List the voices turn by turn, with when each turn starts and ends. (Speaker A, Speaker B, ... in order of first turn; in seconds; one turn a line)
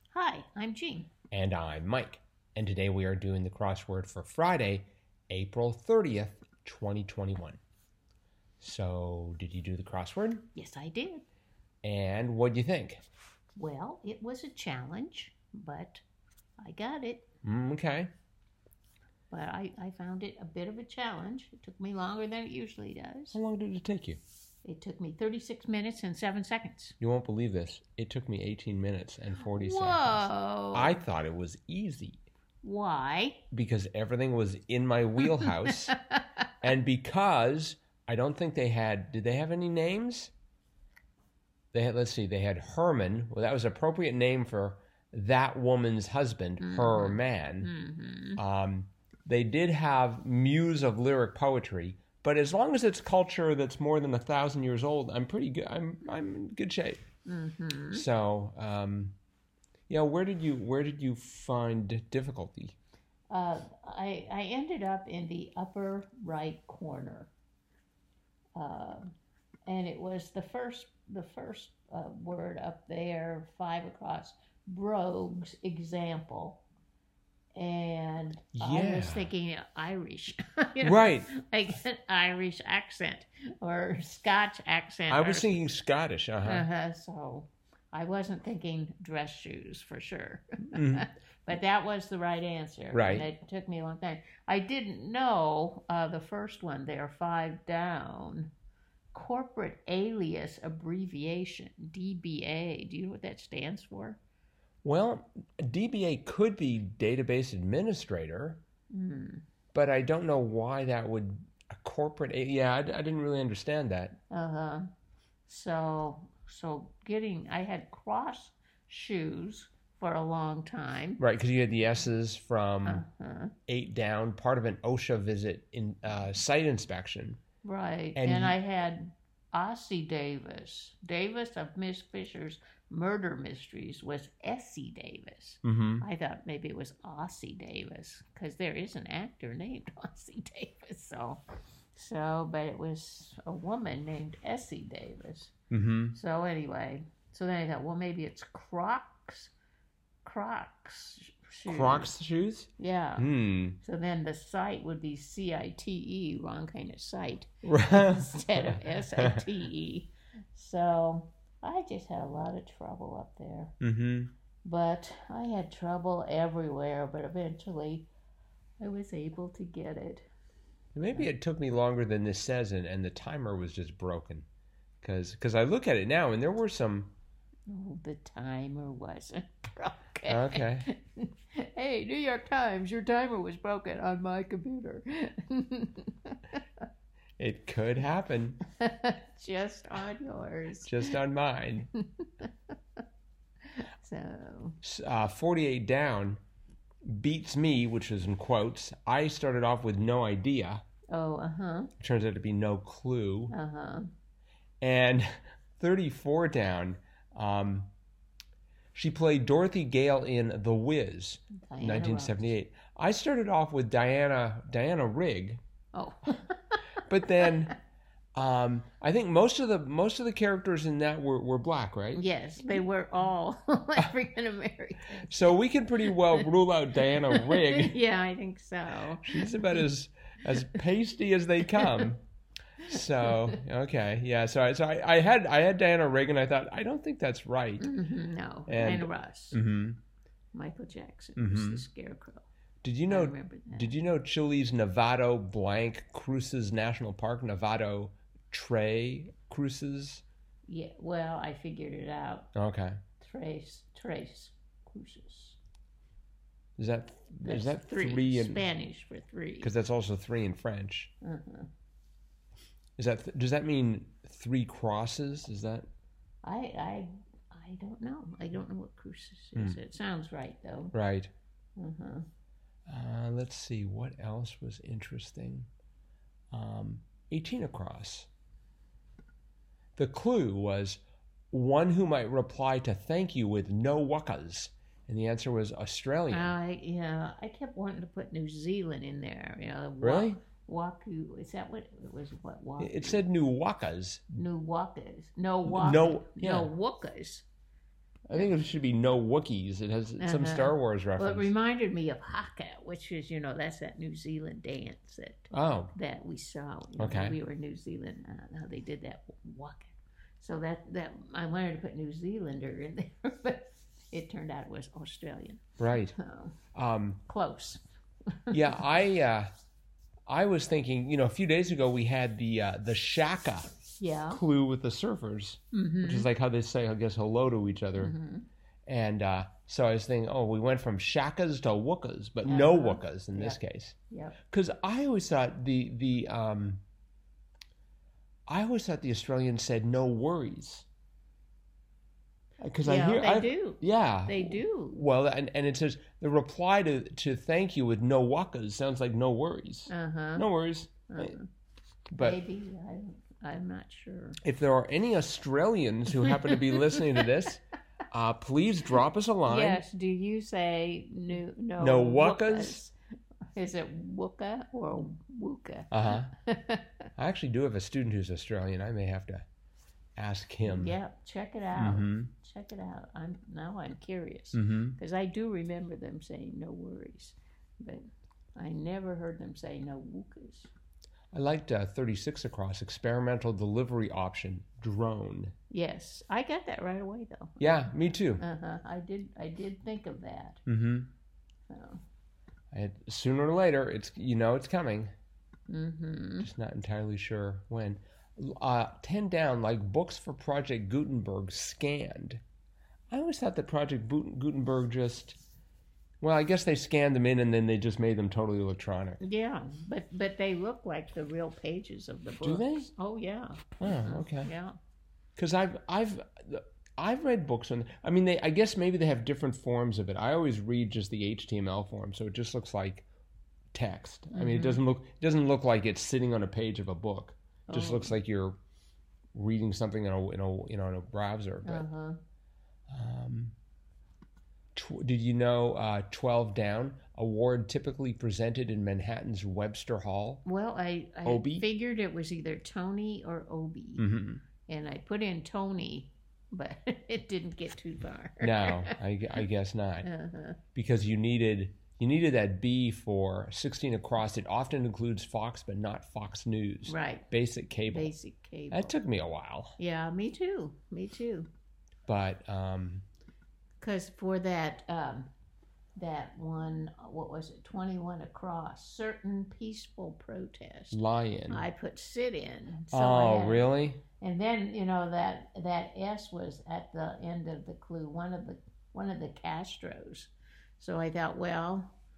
Speaker A: 0.1-1.1
Speaker B: 1.3-7.6
Speaker B: 8.6-10.5
Speaker A: 10.6-11.2
Speaker B: 11.8-13.0
Speaker A: 13.6-16.0
Speaker A: 16.6-17.3
Speaker B: 17.4-18.1
Speaker A: 19.3-23.4
Speaker B: 23.3-24.2
Speaker A: 24.6-26.9
Speaker B: 27.0-32.2
Speaker A: 29.5-31.0
Speaker A: 32.6-33.4
Speaker B: 33.5-36.0
Speaker A: 35.2-36.2
Speaker B: 36.6-40.3
Speaker B: 41.7-47.7
Speaker A: 46.6-48.4
Speaker B: 48.4-57.0
Speaker A: 57.3-58.0
Speaker B: 57.9-59.2
Speaker B: 59.9-62.8
Speaker A: 63.3-67.3
Speaker A: 68.5-69.1
Speaker A: 69.7-76.6
Speaker A: 77.5-85.7
Speaker B: 78.5-79.3
Speaker B: 80.8-81.3
Speaker B: 85.1-86.7
Speaker A: 86.5-98.5
Speaker B: 90.7-91.1
Speaker B: 92.9-93.2
Speaker A: 99.1-104.2
Speaker B: 104.8-108.6
Speaker A: 108.9-109.4
Speaker B: 109.7-114.2
Speaker A: 114.3-114.9
Speaker A: 115.5-121.2
Speaker B: 121.2-123.0
Speaker A: 122.8-123.5
Speaker B: 123.7-127.4
Speaker A: 127.6-141.4
Speaker B: 128.2-128.5
Speaker B: 135.6-136.0
Speaker A: 141.9-145.5
Speaker B: 145.7-146.2
Speaker A: 146.1-149.5
Speaker A: 150.2-152.1
Speaker B: 151.7-153.8
Speaker A: 152.8-153.2
Speaker A: 153.8-163.7
Speaker B: 157.7-158.4
Speaker B: 159.2-159.4
Speaker B: 163.8-164.3
Speaker A: 164.6-168.1
Speaker A: 168.8-170.3
Speaker B: 170.9-174.5
Speaker B: 175.0-177.1
Speaker A: 177.7-186.8
Speaker B: 180.3-180.8
Speaker B: 187.4-188.6
Speaker A: 188.7-191.2
Speaker B: 190.8-191.9
Speaker A: 191.9-192.5
Speaker A: 193.7-194.8
Speaker B: 194.8-196.4
Speaker B: 197.0-200.8
Speaker A: 201.1-201.9
Speaker B: 202.0-203.5
Speaker A: 203.5-204.1
Speaker B: 204.8-207.9
Speaker B: 208.9-215.6
Speaker A: 211.6-212.5
Speaker A: 215.9-216.8
Speaker B: 217.0-217.8
Speaker B: 218.3-222.2
Speaker A: 222.1-229.8
Speaker B: 225.2-228.0
Speaker B: 229.2-232.2
Speaker A: 231.8-232.1
Speaker B: 232.8-237.9
Speaker A: 232.9-233.5
Speaker A: 237.8-239.6
Speaker B: 238.7-240.0
Speaker A: 240.5-242.5
Speaker B: 241.3-241.8
Speaker B: 242.8-250.2
Speaker A: 243.1-243.9
Speaker A: 250.7-252.5
Speaker B: 252.5-253.0
Speaker A: 253.2-255.6
Speaker B: 256.8-258.6
Speaker A: 257.4-259.7
Speaker B: 259.6-261.1
Speaker A: 261.2-261.7
Speaker B: 263.0-265.9
Speaker A: 266.4-270.9
Speaker B: 270.9-271.3
Speaker A: 271.8-272.3
Speaker B: 272.9-275.7
Speaker B: 276.5-278.3
Speaker B: 279.9-286.6
Speaker A: 286.3-293.2
Speaker B: 290.0-290.4
Speaker B: 292.8-294.4
Speaker A: 294.3-297.4
Speaker B: 295.6-296.7
Speaker B: 298.3-301.5
Speaker A: 300.2-316.6
Speaker B: 305.5-305.9
Speaker B: 307.0-307.4
Speaker B: 315.8-316.1
Speaker B: 316.7-317.2
Speaker A: 317.2-317.8
Speaker A: 318.3-318.8
Speaker B: 318.5-319.5
Speaker B: 320.3-323.8
Speaker A: 324.0-324.4
Speaker B: 324.3-328.1
Speaker A: 325.7-326.3
Speaker A: 327.9-328.5
Speaker B: 328.9-333.9
Speaker A: 332.4-333.6
Speaker A: 334.1-334.4
Speaker B: 334.5-336.8
Speaker B: 338.5-340.9
Speaker B: 342.6-351.4
Speaker A: 342.8-345.0
Speaker A: 349.9-350.4
Speaker A: 351.1-351.5
Speaker B: 352.1-352.4
Speaker A: 352.2-354.4
Speaker B: 354.4-359.8
Speaker A: 356.2-357.2
Speaker A: 359.5-362.9
Speaker B: 361.8-362.8
Speaker A: 363.5-366.9
Speaker B: 365.9-366.3
Speaker B: 367.1-369.4
Speaker B: 370.2-370.9
Speaker A: 370.6-380.7
Speaker B: 371.8-372.3
Speaker B: 374.5-375.0
Speaker B: 381.3-385.5
Speaker A: 385.7-390.6
Speaker B: 387.6-388.4
Speaker B: 390.6-391.1
Speaker A: 391.7-392.0
Speaker B: 392.7-395.1
Speaker A: 395.7-396.5
Speaker B: 396.4-402.4
Speaker B: 403.1-405.4
Speaker B: 406.2-409.2
Speaker A: 409.2-414.8
Speaker B: 412.4-412.9
Speaker B: 413.8-414.5
Speaker B: 415.4-423.1
Speaker B: 423.7-428.6
Speaker A: 424.3-424.8
Speaker A: 427.7-428.2
Speaker B: 429.3-431.9
Speaker A: 431.6-432.2
Speaker B: 432.9-433.5
Speaker B: 434.7-440.4
Speaker A: 440.4-444.1
Speaker B: 441.2-441.6
Speaker B: 444.0-444.4
Speaker A: 444.7-448.9
Speaker B: 448.4-450.1
Speaker A: 450.0-450.6
Speaker B: 450.7-458.1
Speaker A: 456.9-457.3
Speaker A: 457.9-458.9
Speaker B: 458.7-459.8
Speaker A: 459.8-461.5
Speaker B: 462.1-463.0
Speaker A: 463.8-465.3
Speaker A: 465.9-473.7
Speaker B: 470.9-471.7
Speaker B: 472.9-474.0
Speaker A: 474.2-481.9